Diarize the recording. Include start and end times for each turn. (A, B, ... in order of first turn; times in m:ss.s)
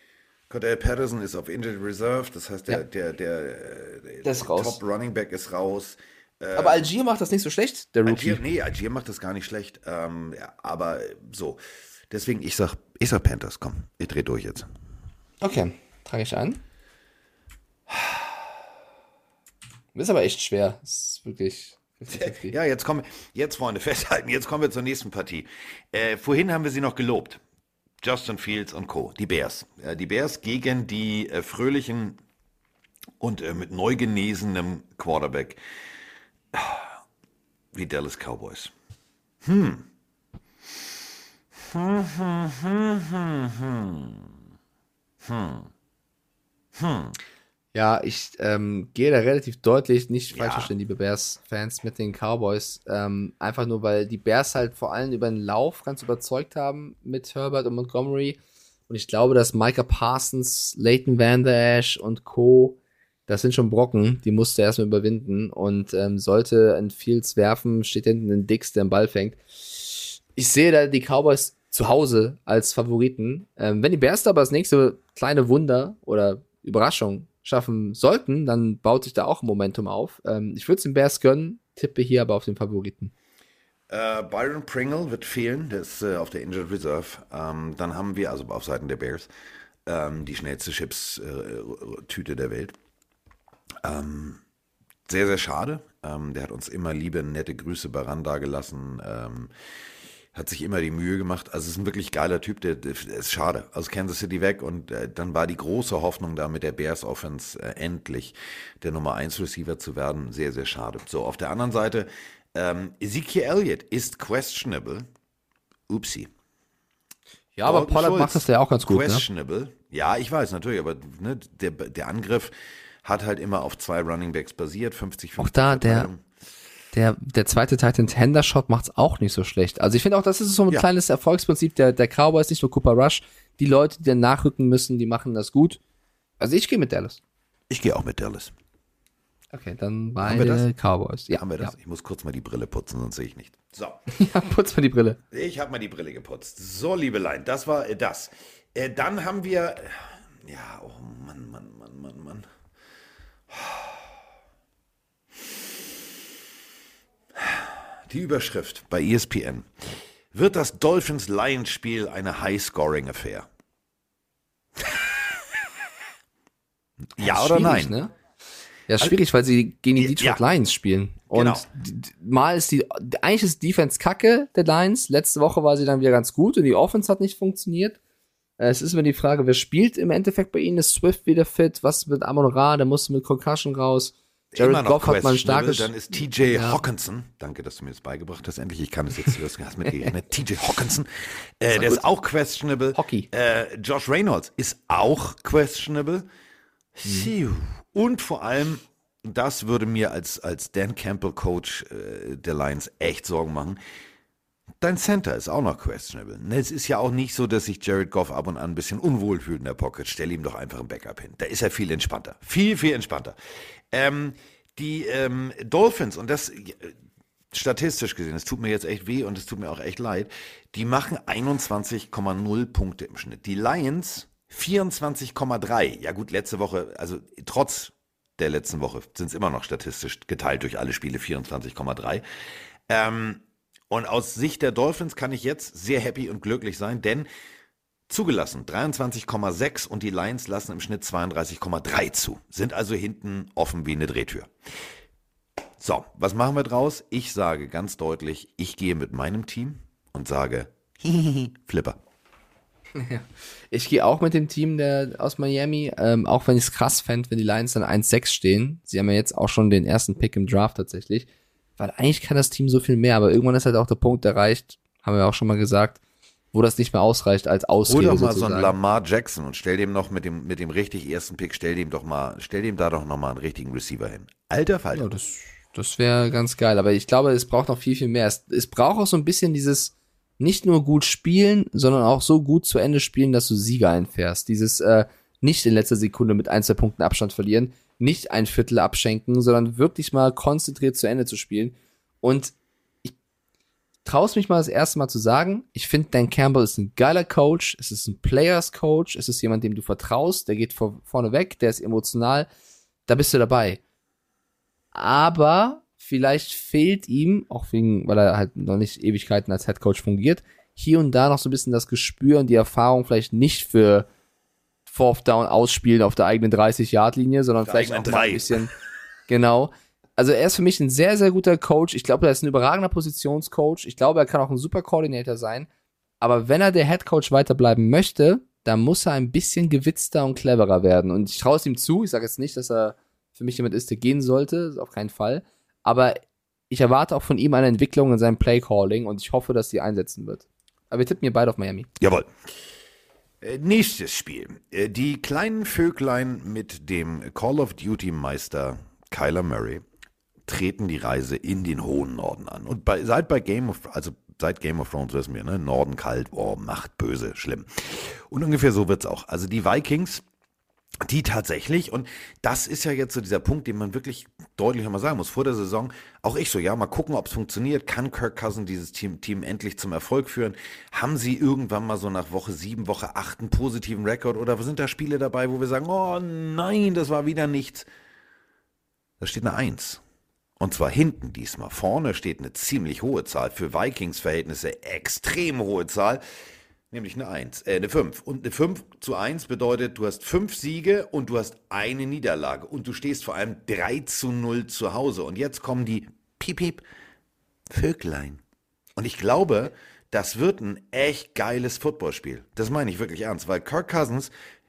0:00.5-0:06.9 A
0:04.2-0:04.8 B
0:06.5-0:08.4 B
0:08.0-0:14.7 A
0:15.4-0:16.6 B
0:17.9-0:18.4 A
0:19.9-0:22.5 B
0:22.1-0:27.4 A
0:28.0-0:32.2 A
0:33.2-0:35.6 A
0:36.5-0:37.0 A
0:37.7-0:38.7 A
0:39.4-0:39.8 A
0:41.5-0:44.3 A
0:45.2-0:45.7 A
0:46.7-0:47.2 A
0:47.7-0:58.4 B
0:50.3-0:50.7 A
0:58.9-1:23.1 B
1:23.9-1:29.3 A
1:29.8-1:32.7 A
1:33.8-1:34.4 A
1:35.1-1:39.5 A
1:40.3-1:55.1 A
1:55.9-1:56.3 A
1:57.6-1:59.2 B
1:57.6-2:06.2 A
2:05.4-2:06.1 B
2:06.9-2:15.8 B
2:16.4-2:17.2 B
2:17.7-2:18.5 A
2:19.5-2:21.7 B
2:20.2-2:20.7 A
2:21.3-2:24.0 A
2:24.1-2:25.2 B
2:25.3-2:32.5 A
2:33.5-2:34.1 A
2:37.3-2:43.5 A
2:44.8-2:45.4 A
2:47.2-2:47.9 A
2:47.2-2:48.1 B
2:48.9-2:58.0 B
2:50.0-2:50.4 A
2:51.3-2:51.7 A
2:58.6-3:06.8 B
3:04.5-3:16.2 A
3:11.7-3:12.0 B
3:12.9-3:13.3 B
3:16.9-3:23.8 A
3:17.0-3:17.3 B
3:24.8-3:33.4 A
3:33.9-3:37.0 A
3:37.5-3:52.2 A
3:52.9-3:57.3 A
3:58.1-4:04.5 A
4:05.8-4:12.0 A
4:12.9-4:21.3 B
4:21.8-4:26.0 B
4:26.5-4:28.8 B
4:27.9-4:35.1 A
4:34.9-4:53.1 B
4:54.0-5:02.5 B
5:03.1-5:03.8 B
5:04.9-5:14.1 B
5:14.9-5:18.7 B
5:17.6-5:18.7 A
5:19.3-5:25.7 B
5:26.2-5:41.9 B
5:42.0-5:42.3 A
5:43.4-5:49.8 A
5:50.4-6:00.2 A
6:01.0-6:17.9 A
6:19.2-6:20.0 A
6:20.6-6:26.2 A
6:26.9-6:36.8 A
6:37.7-6:38.4 A
6:39.0-6:44.3 A